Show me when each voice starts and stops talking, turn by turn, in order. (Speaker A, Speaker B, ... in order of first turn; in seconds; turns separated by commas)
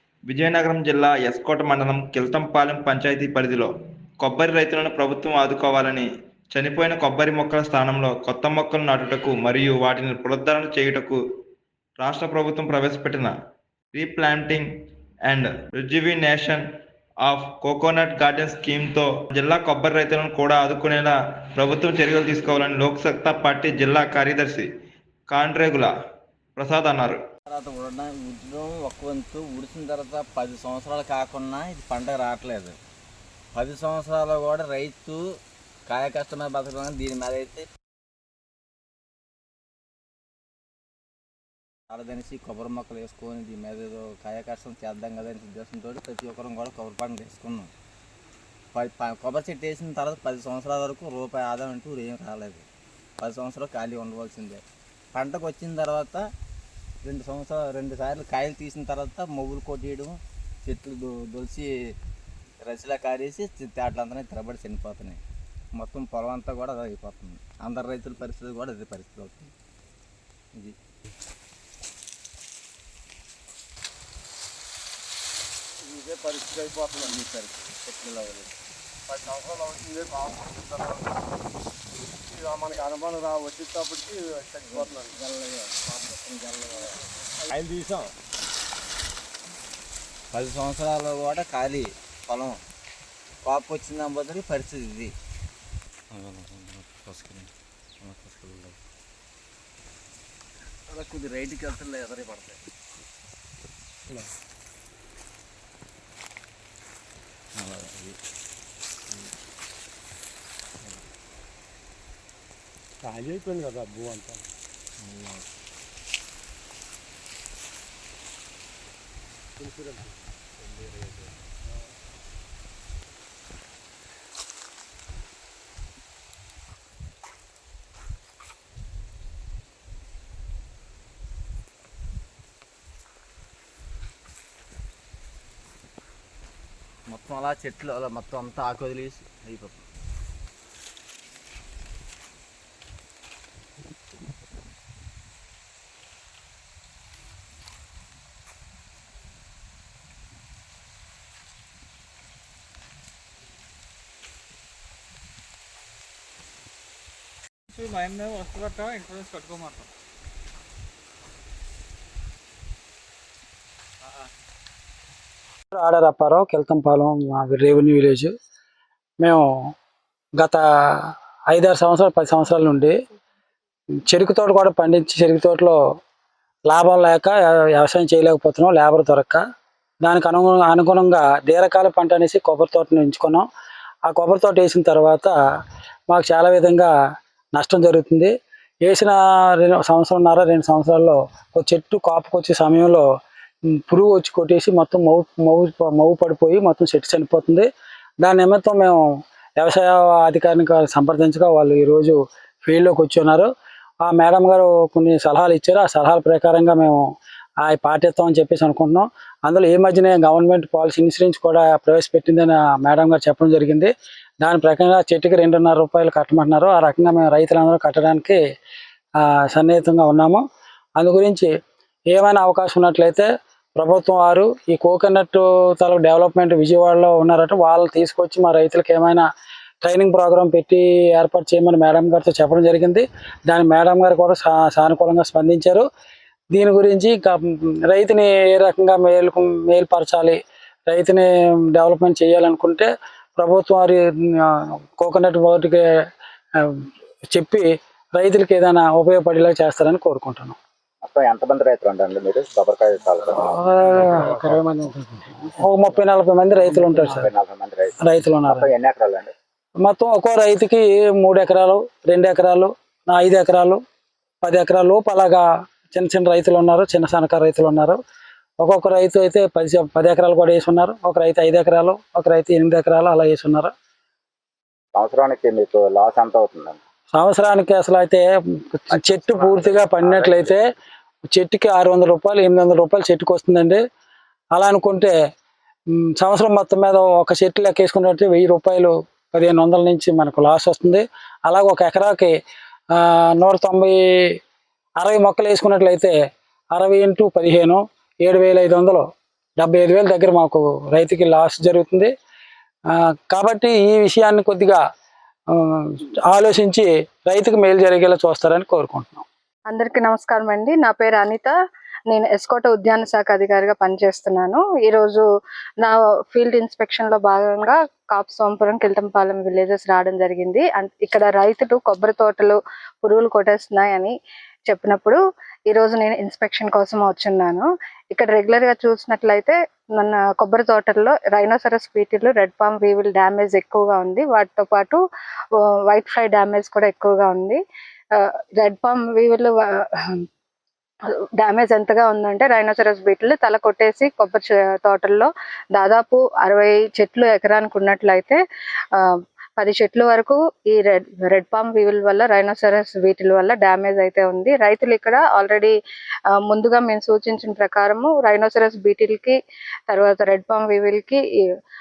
Speaker A: 0.3-3.7, Speaker A: 4.2-11.2, Speaker A: 12.0-13.3, Speaker A: 13.9-14.7, Speaker A: 15.2-16.6, Speaker A: 17.2-24.7, Speaker A: 25.3-25.9, Speaker A: 26.6-27.2, Speaker B: 27.5-32.8, Speaker B: 33.5-35.2, Speaker B: 35.9-37.6, Speaker B: 41.9-47.7, Speaker B: 48.7-52.6, Speaker B: 53.2-54.6, Speaker B: 55.1-56.2, Speaker B: 57.0-61.9, Speaker B: 62.6-65.2, Speaker B: 65.7-69.5, Speaker C: 75.9-77.2, Speaker B: 76.2-78.5, Speaker C: 79.1-81.0, Speaker C: 82.4-85.1, Speaker B: 84.6-88.1, Speaker B: 90.3-92.6, Speaker B: 93.4-95.1, Speaker B: 96.1-97.5, Speaker B: 98.0-98.8, Speaker B: 100.9-102.6, Speaker B: 107.5-108.2, Speaker D: 113.0-114.4, Speaker B: 115.0-115.4, Speaker D: 119.6-120.1, Speaker B: 137.1-139.8, Speaker E: 157.7-159.9, Speaker F: 165.7-168.3, Speaker F: 169.2-169.4, Speaker F: 170.4-172.9, Speaker F: 174.1-175.8, Speaker F: 176.7-179.4, Speaker F: 180.0-183.4, Speaker F: 184.1-185.3, Speaker F: 186.1-186.9, Speaker F: 187.5-188.3, Speaker F: 188.8-193.1, Speaker F: 193.9-197.7, Speaker F: 198.2-199.0, Speaker F: 199.6-203.5, Speaker F: 204.0-207.0, Speaker F: 207.6-218.4, Speaker F: 219.2-220.4, Speaker F: 221.0-221.5, Speaker F: 222.1-229.2, Speaker F: 229.8-235.8, Speaker F: 236.5-240.4, Speaker F: 240.9-245.8, Speaker F: 246.6-250.6, Speaker G: 251.0-253.6, Speaker F: 253.5-257.3, Speaker G: 256.7-259.3, Speaker F: 258.0-258.7, Speaker F: 259.8-263.8, Speaker F: 264.4-268.0, Speaker F: 268.6-273.7, Speaker G: 274.9-276.8, Speaker F: 277.1-280.6, Speaker G: 278.9-280.6, Speaker F: 281.3-283.8, Speaker F: 284.5-285.1, Speaker F: 286.2-292.3, Speaker F: 292.9-293.9, Speaker F: 295.0-296.1, Speaker F: 296.7-299.0, Speaker F: 299.6-302.1, Speaker F: 303.3-304.8, Speaker F: 305.5-309.2, Speaker H: 309.7-311.5, Speaker H: 312.1-315.2, Speaker H: 315.8-324.1, Speaker H: 324.7-335.0, Speaker H: 335.9-337.6, Speaker H: 338.1-340.2, Speaker H: 341.4-348.4, Speaker H: 348.9-355.7, Speaker H: 356.4-359.4, Speaker H: 359.9-361.2